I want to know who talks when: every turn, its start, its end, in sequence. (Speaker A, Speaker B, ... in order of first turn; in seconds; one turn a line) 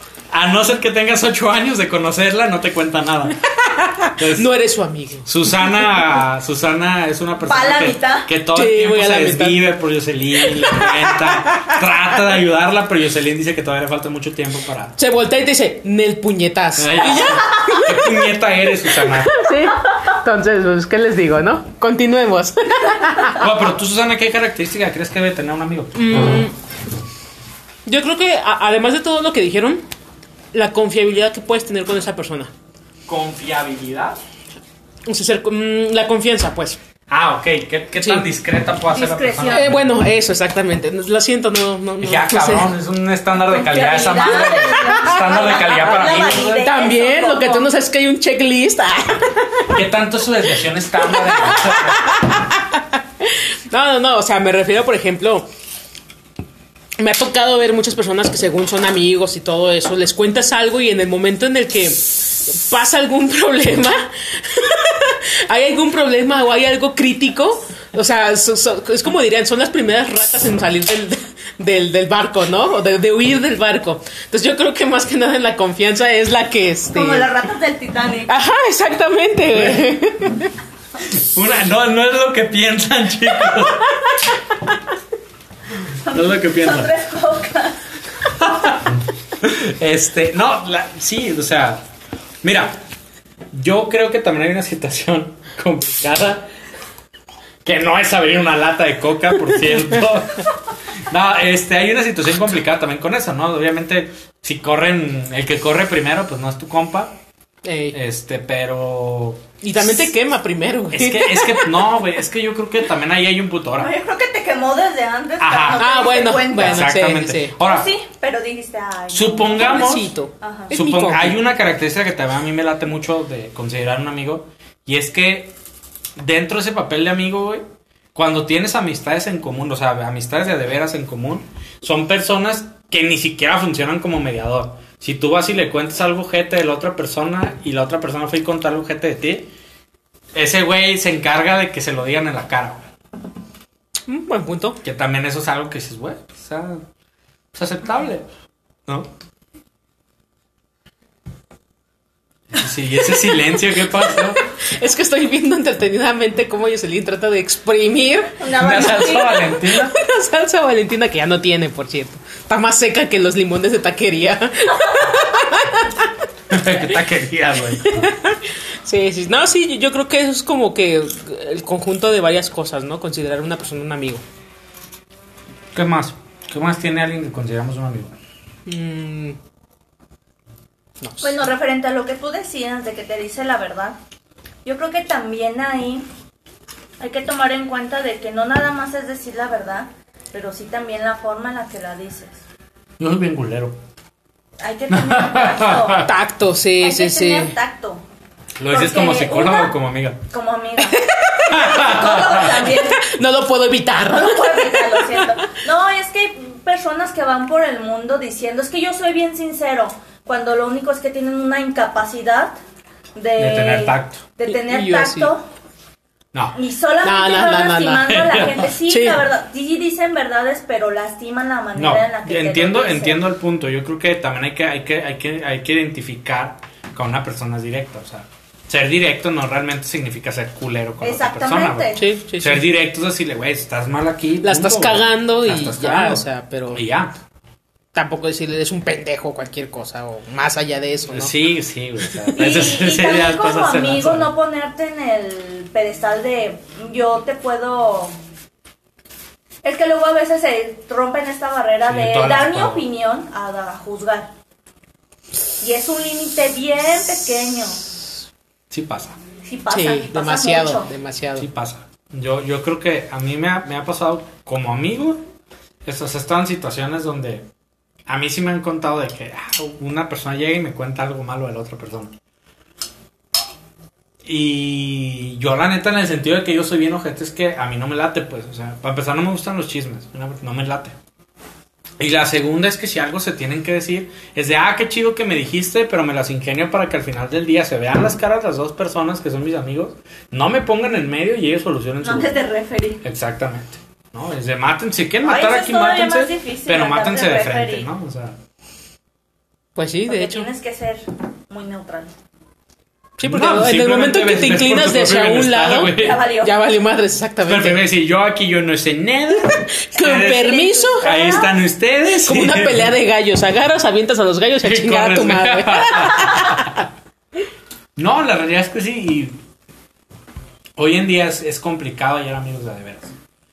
Speaker A: 0.3-3.4
Speaker B: 3.6-5.3
Speaker A: 4.1-4.5
Speaker A: 5.2-14.9
Speaker C: 7.4-8.3
Speaker B: 8.5-9.6
Speaker B: 10.7-11.8
Speaker B: 15.0-18.2
Speaker A: 16.8-19.4
Speaker C: 17.1-17.9
Speaker B: 18.9-23.4
Speaker A: 23.3-26.3
Speaker B: 25.9-26.5
Speaker B: 27.9-29.8
Speaker B: 30.5-32.5
Speaker A: 33.1-34.2
Speaker B: 35.0-36.8
Speaker A: 37.1-39.9
Speaker B: 38.0-38.3
Speaker C: 38.9-39.7
Speaker B: 39.5-42.7
Speaker A: 42.0-46.6
Speaker C: 43.5-47.7
Speaker B: 44.4-49.7
Speaker A: 49.7-52.4
Speaker B: 51.0-55.5
Speaker B: 57.0-77.3
Speaker C: 76.9-78.3
Speaker B: 78.3-80.5
Speaker A: 79.5-79.8
Speaker A: 81.0-84.0
Speaker B: 83.6-84.0
Speaker C: 86.0-87.8
Speaker A: 86.1-86.9
Speaker A: 88.4-88.8
Speaker A: 89.4-91.8
Speaker A: 92.4-92.8
Speaker A: 93.5-96.5
Speaker A: 97.6-100.5
Speaker A: 101.1-107.2
Speaker B: 107.6-108.0
Speaker A: 107.9-109.5
Speaker B: 109.6-111.9
Speaker A: 110.9-113.9
Speaker C: 113.8-116.9
Speaker A: 115.4-115.9
Speaker B: 115.7-117.6
Speaker A: 116.5-117.9
Speaker C: 117.6-120.7
Speaker A: 119.1-120.1
Speaker B: 119.5-121.4
Speaker A: 120.7-125.5
Speaker A: 126.2-127.6
Speaker A: 128.1-139.5
Speaker A: 140.3-142.8
Speaker B: 144.1-144.8
Speaker A: 144.8-146.8
Speaker A: 147.5-148.3
Speaker A: 152.5-154.4
Speaker B: 153.3-166.1
Speaker C: 158.4-159.6
Speaker A: 158.6-159.9
Speaker A: 166.5-168.1
Speaker B: 167.8-174.2
Speaker A: 175.7-178.2
Speaker B: 178.7-179.4
Speaker B: 181.0-181.3
Speaker C: 181.2-184.0
Speaker C: 184.6-186.1
Speaker C: 187.0-192.4
Speaker A: 193.0-193.8
Speaker C: 194.6-196.0
Speaker A: 194.9-196.1
Speaker B: 196.0-197.5
Speaker C: 196.8-198.0
Speaker A: 198.6-200.2
Speaker C: 198.7-199.7
Speaker C: 200.3-201.0
Speaker B: 200.8-202.0
Speaker A: 201.5-202.6
Speaker C: 201.6-203.1
Speaker B: 202.6-205.4
Speaker C: 204.0-212.6
Speaker C: 213.1-215.4
Speaker A: 213.4-214.2
Speaker B: 214.5-215.3
Speaker C: 216.5-223.2
Speaker B: 217.0-219.2
Speaker A: 218.1-218.5
Speaker A: 221.7-237.1
Speaker C: 231.0-232.0
Speaker B: 231.9-232.7
Speaker B: 234.4-236.8
Speaker B: 237.9-241.3
Speaker A: 241.1-244.3
Speaker C: 242.3-248.1
Speaker C: 249.6-254.3
Speaker A: 251.8-252.8
Speaker C: 255.6-257.8
Speaker A: 258.7-259.2
Speaker C: 259.4-260.9
Speaker B: 259.7-261.5
Speaker A: 261.4-265.2
Speaker A: 265.8-267.5
Speaker A: 268.1-272.1
Speaker A: 274.2-280.9
Speaker A: 282.0-292.4
Speaker C: 292.0-293.0
Speaker A: 293.0-298.4
Speaker C: 295.2-297.9
Speaker B: 299.8-300.5
Speaker C: 300.1-302.1
Speaker B: 303.2-307.9
Speaker A: 303.2-306.2
Speaker C: 305.9-306.6
Speaker A: 307.4-312.9
Speaker B: 309.6-311.4
Speaker C: 310.1-311.5
Speaker B: 312.2-316.8
Speaker A: 314.6-316.8
Speaker A: 318.0-319.4
Speaker A: 320.8-323.1